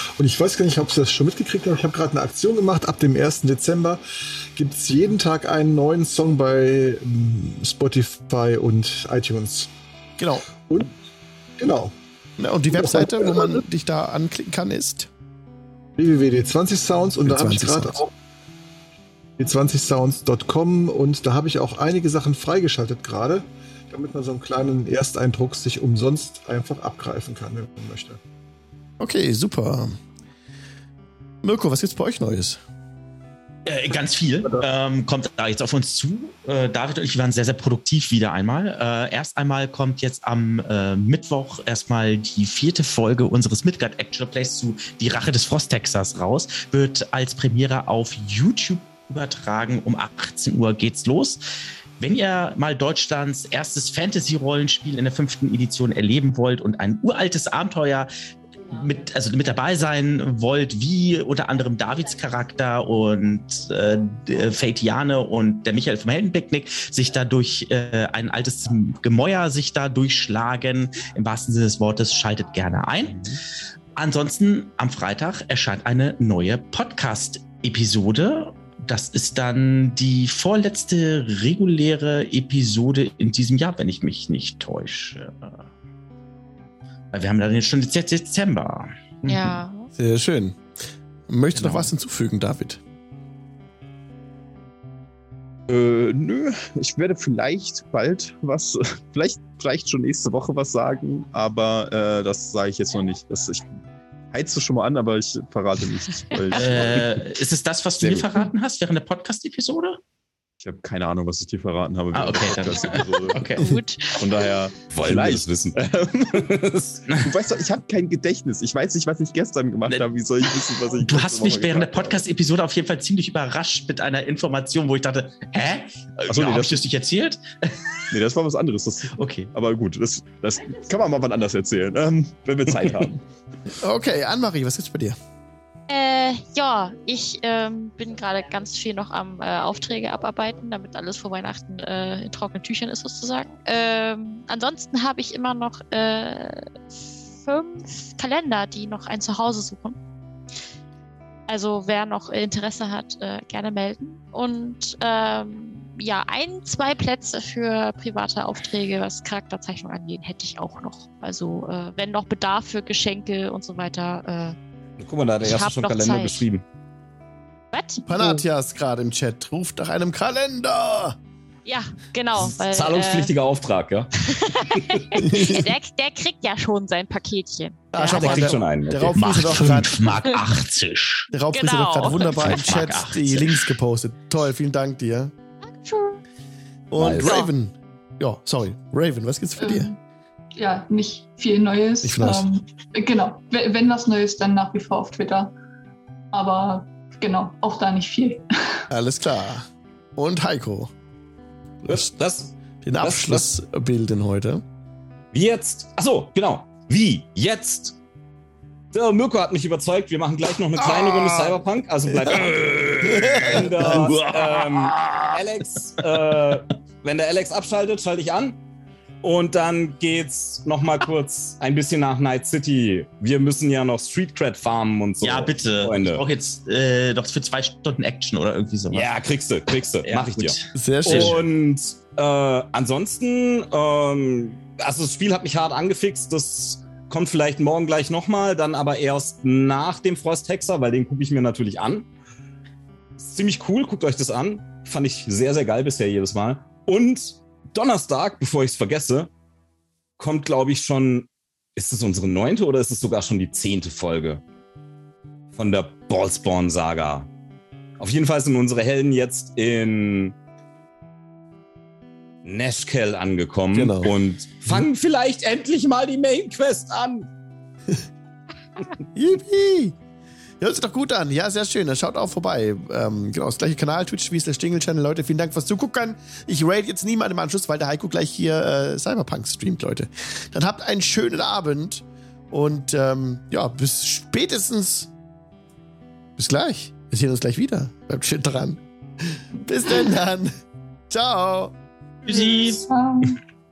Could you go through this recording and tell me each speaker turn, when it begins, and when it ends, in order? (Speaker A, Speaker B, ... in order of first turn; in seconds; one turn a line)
Speaker A: 0.2-4.0
Speaker A: 4.6-9.7
Speaker B: 10.2-10.5
Speaker A: 10.7-10.9
Speaker A: 11.6-11.9
Speaker B: 12.4-15.1
Speaker A: 12.8-13.6
Speaker A: 16.0-18.1
Speaker B: 17.2-18.0
Speaker A: 19.4-28.2
Speaker B: 29.0-30.0
Speaker B: 31.4-32.6
Speaker C: 33.7-51.4
Speaker C: 52.0-58.1
Speaker C: 58.7-73.3
Speaker C: 74.0-85.6
Speaker C: 87.1-89.6
Speaker D: 89.2-89.9
Speaker B: 90.0-90.6
Speaker B: 91.3-92.8
Speaker C: 91.6-91.9
Speaker E: 95.7-103.7
Speaker E: 104.3-107.1
Speaker C: 106.5-110.0
Speaker E: 110.6-122.2
Speaker C: 112.1-113.7
Speaker D: 113.6-114.3
Speaker F: 114.9-115.8
Speaker F: 116.3-117.1
Speaker C: 121.0-127.8
Speaker E: 126.3-126.8
Speaker E: 128.1-133.2
Speaker C: 129.1-129.5
Speaker B: 133.8-135.2
Speaker D: 135.9-146.8
Speaker D: 147.4-150.0
Speaker D: 151.5-164.6
Speaker F: 165.0-166.6
Speaker D: 165.4-166.5
Speaker D: 167.7-168.1
Speaker B: 168.1-171.2
Speaker D: 171.7-173.3
Speaker F: 172.4-175.2
Speaker D: 174.2-178.6
Speaker B: 175.2-175.7
Speaker B: 177.9-180.3
Speaker F: 178.0-179.5
Speaker C: 179.2-181.3
Speaker B: 181.3-185.3
Speaker D: 181.5-182.7
Speaker C: 182.2-183.5
Speaker D: 185.6-186.2
Speaker B: 186.9-189.9
Speaker F: 187.0-187.5
Speaker G: 189.6-190.0
Speaker G: 190.6-195.5
Speaker B: 192.0-192.6
Speaker G: 196.3-198.8
Speaker B: 198.9-200.9
Speaker B: 201.8-202.1
Speaker F: 201.9-203.5
Speaker B: 202.8-204.6
Speaker F: 205.3-208.0
Speaker F: 208.9-218.6
Speaker B: 212.1-212.5
Speaker B: 213.0-214.1
Speaker C: 214.3-215.3
Speaker F: 219.2-226.2
Speaker C: 225.2-229.1
Speaker F: 228.9-242.1
Speaker C: 230.1-231.4
Speaker B: 230.8-231.4
Speaker F: 243.2-249.3
Speaker F: 250.2-254.4
Speaker F: 255.5-257.3
Speaker F: 258.0-260.4
Speaker F: 262.4-267.3
Speaker B: 263.7-264.1
Speaker B: 269.1-269.9
Speaker B: 270.6-285.1
Speaker B: 286.4-290.6
Speaker B: 291.1-291.7
Speaker C: 292.2-292.9
Speaker G: 292.9-293.4